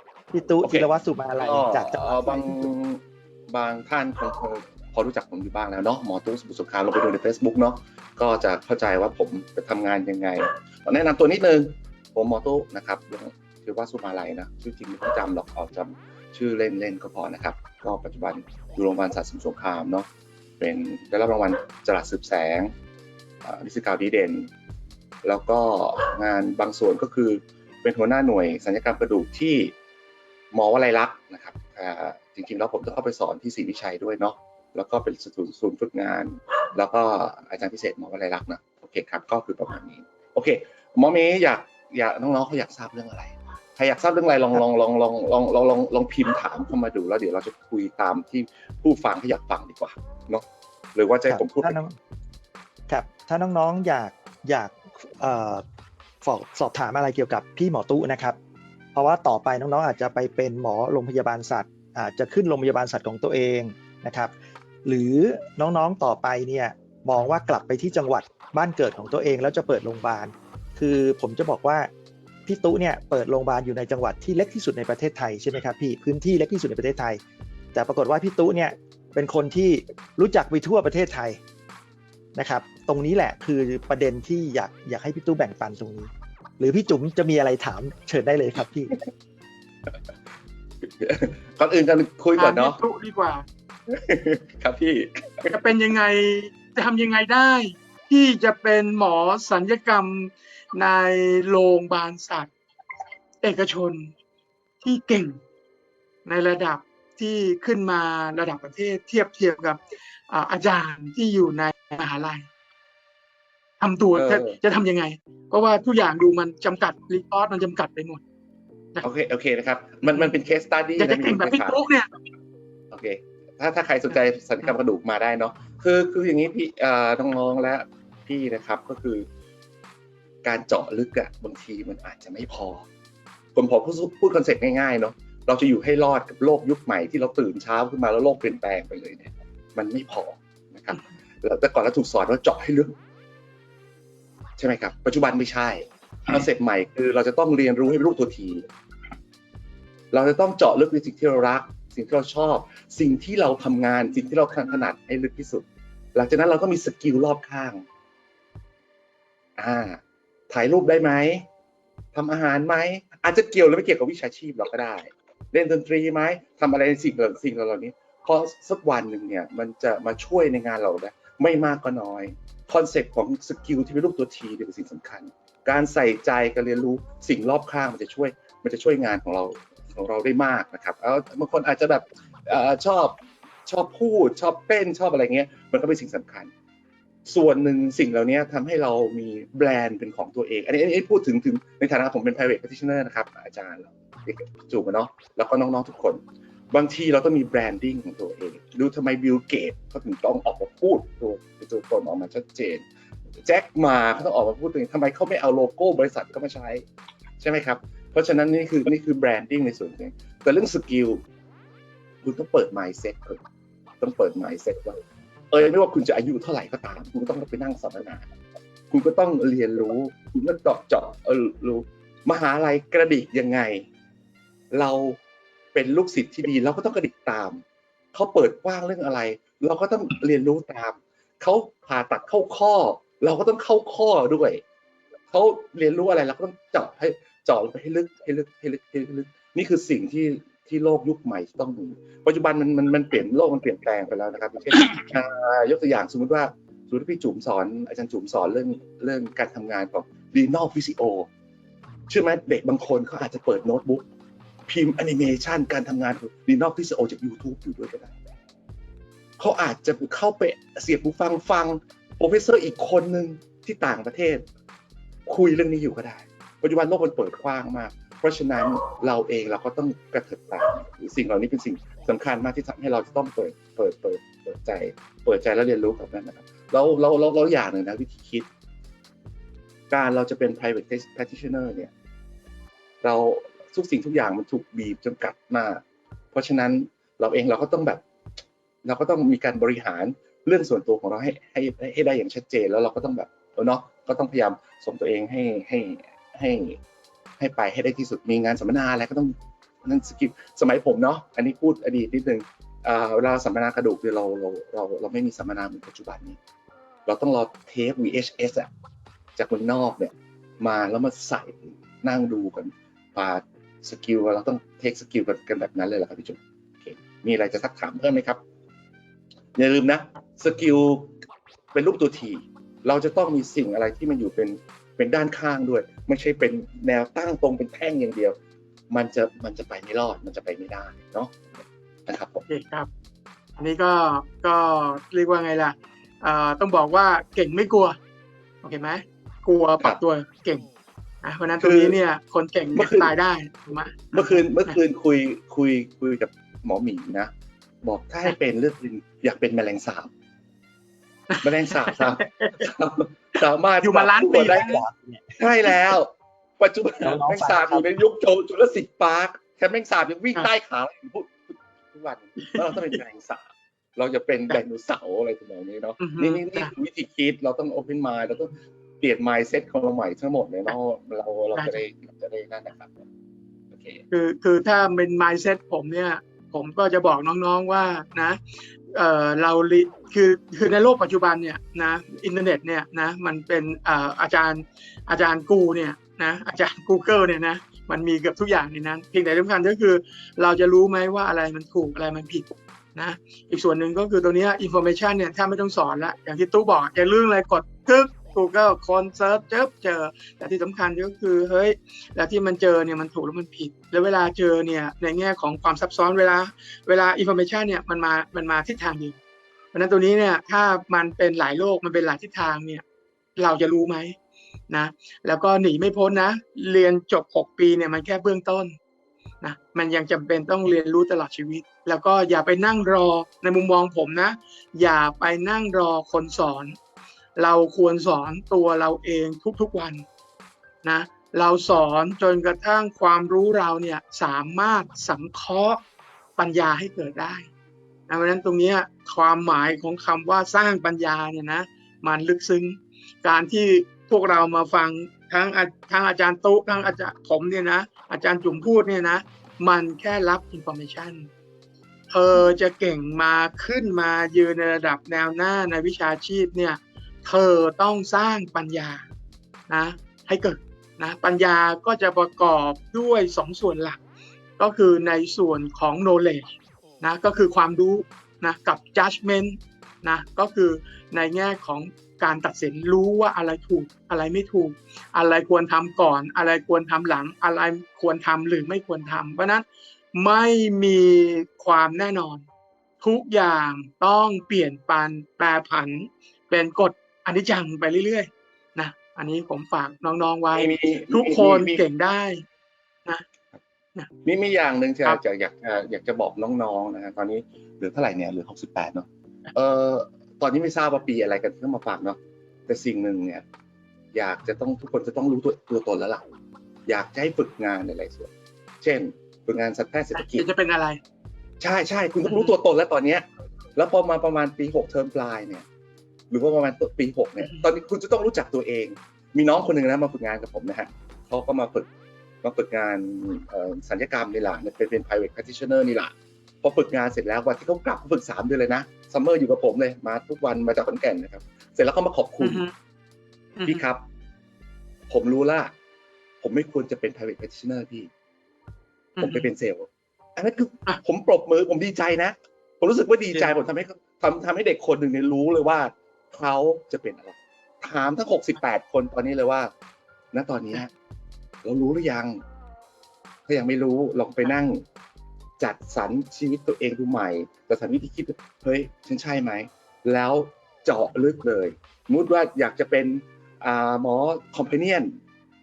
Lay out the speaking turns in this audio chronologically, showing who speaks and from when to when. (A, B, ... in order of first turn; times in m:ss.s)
0:00.3-0:02.7 A
0:00.6-0:20.1 B
0:20.6-0:22.7 B
0:23.4-0:24.5 B
0:25.2-0:29.8 B
0:30.5-0:51.8 B
0:51.3-0:52.0 A
0:52.9-0:55.6 A
0:56.2-0:58.4 A
0:58.9-1:04.3 A
1:04.8-1:11.9 A
1:12.5-1:17.2 A
1:17.7-1:21.4 A
1:22.4-1:28.9 A
1:31.0-1:32.8 B
1:32.4-1:33.4 C
1:33.9-1:35.5 B
1:35.5-1:42.5 C
1:43.4-1:44.1 C
1:44.8-1:45.4 C
1:46.2-1:52.5 C
1:53.8-1:58.2 C
1:54.1-1:54.6 B
1:59.0-2:01.8 B
2:00.0-2:00.3 C
2:01.0-2:02.1 C
2:02.9-2:09.3 B
2:04.1-2:04.7 C
2:10.4-2:12.9 B
2:13.6-2:23.0 B
2:24.6-2:28.7 B
2:30.1-2:37.8 B
2:39.6-2:41.5 B
2:42.1-3:06.5 B
3:07.3-3:22.8 B
3:23.4-3:26.8 B
3:27.4-3:31.2 B
3:32.2-3:33.4 B
3:34.0-3:35.0 B
3:35.5-3:38.2 B
3:38.9-3:43.9 B
3:44.7-3:45.2 B
3:45.7-3:54.6 B
3:55.3-4:11.3 B
4:12.1-4:14.1 B
4:14.7-4:18.2 B
4:19.4-4:24.5 B
4:25.3-4:38.5 B
4:39.9-4:41.9 B
4:43.0-4:48.0 B
4:48.8-4:56.8 B
4:57.4-5:06.4 B
5:07.1-5:08.7 B
5:09.4-5:18.4 B
5:19.6-5:21.2 B
5:21.7-5:28.4 B
5:28.9-5:32.4 B
5:32.5-5:32.9 C
5:33.6-5:38.0 C
5:38.6-5:40.7 C
5:41.2-5:44.8 C
5:41.6-5:42.0 B
5:42.8-5:43.1 B
5:44.1-5:47.3 B
5:47.8-5:50.1 B
5:51.3-5:52.7 C
5:51.4-5:54.7 B
5:53.8-5:54.8 C
5:54.7-5:55.5 A
5:55.4-6:03.4 B
5:57.0-5:57.9 A
6:02.4-6:03.0 C
6:04.0-6:13.1 B
6:06.0-6:06.7 C
6:11.6-6:11.8 C
6:13.7-6:14.0 B
6:14.1-6:18.4 C
6:18.9-6:49.2 C
6:49.7-6:52.8 C
6:53.4-6:54.2 C
6:54.7-6:58.8 C
6:59.4-7:06.8 C
7:07.4-7:10.0 C
7:10.8-7:15.8 C
7:16.4-7:17.5 C
7:18.1-7:31.3 C
7:32.1-7:39.0 C
7:39.7-7:44.0 C
7:44.6-8:02.4 C
8:03.0-8:12.4 C
8:10.5-8:11.9 B
8:14.2-8:23.4 B
8:24.1-8:26.3 B
8:26.9-8:30.4 B
8:30.2-8:31.0 C
8:31.6-8:35.7 B
8:32.2-8:32.6 C
8:36.3-8:41.9 B
8:37.4-8:37.7 C
8:42.4-8:52.6 B
8:52.4-8:52.7 C
8:53.6-8:53.8 C
8:53.7-8:54.0 B
8:55.1-8:55.7 B
8:56.4-8:58.1 B
8:59.2-8:59.5 C
8:59.2-9:09.7 B
9:10.3-9:10.9 B
9:11.6-9:12.4 B
9:13.5-9:14.8 B
9:15.6-9:25.2 B